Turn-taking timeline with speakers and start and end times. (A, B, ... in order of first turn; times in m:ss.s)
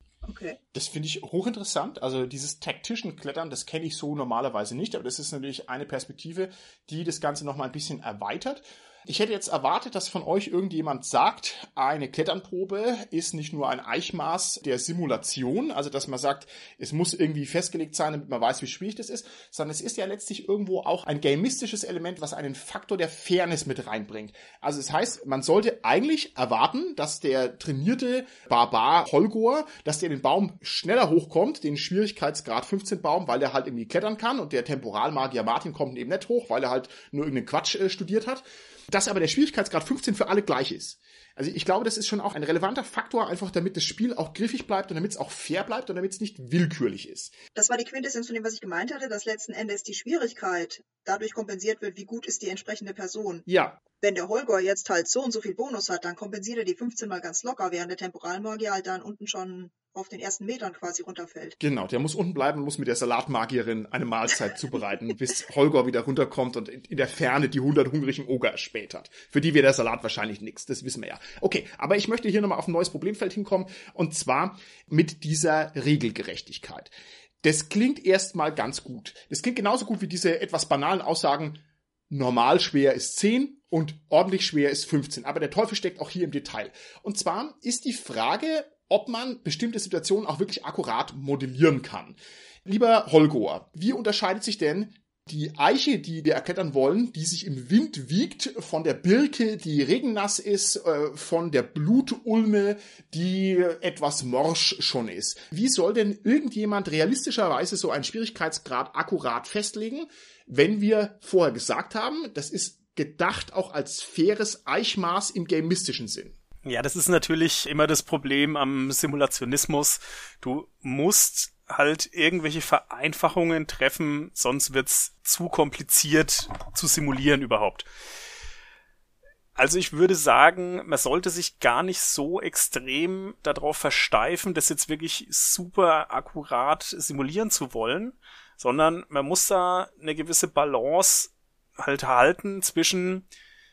0:00.2-0:00.6 A
0:00.7-0:47.4 B
0:47.6-0:53.5 A
0:53.5-0:53.8 B
0:54.0-1:01.6 A
1:01.6-1:56.4 B
1:56.6-2:07.9 C
2:09.6-2:23.2 C